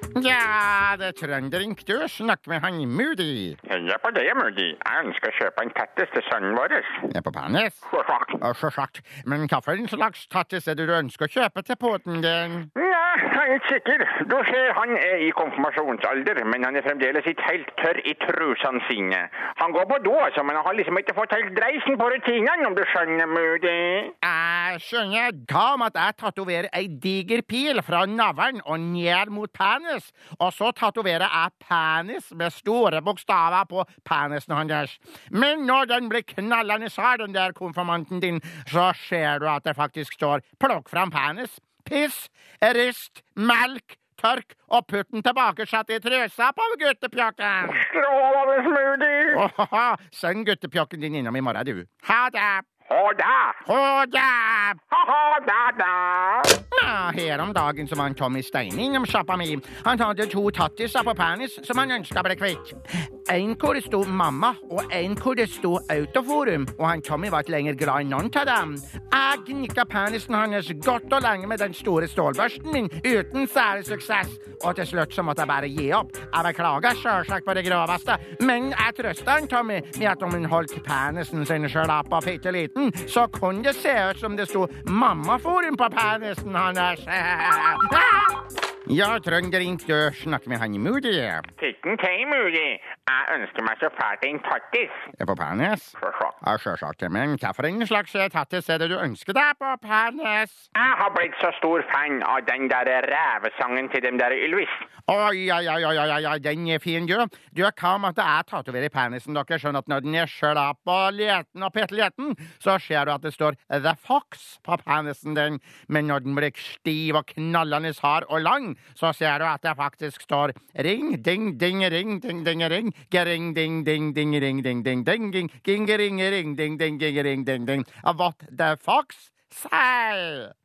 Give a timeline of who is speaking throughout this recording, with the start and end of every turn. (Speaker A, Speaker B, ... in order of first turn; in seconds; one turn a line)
Speaker A: 0.1-3.6
Speaker B: 3.6-7.0
Speaker A: 7.1-7.8
Speaker B: 7.9-8.4
Speaker A: 8.4-12.7
Speaker B: 12.8-24.1
Speaker A: 24.2-47.8
Speaker B: 47.7-49.4
Speaker A: 49.3-52.7
Speaker B: 52.8-53.6
Speaker A: 53.6-54.8
Speaker B: 54.9-56.5
Speaker A: 56.6-91.5
Speaker B: 91.6-95.1
Speaker A: 95.2-100.7
Speaker B: 96.0-96.3
Speaker B: 100.7-104.8
Speaker A: 105.1-130.5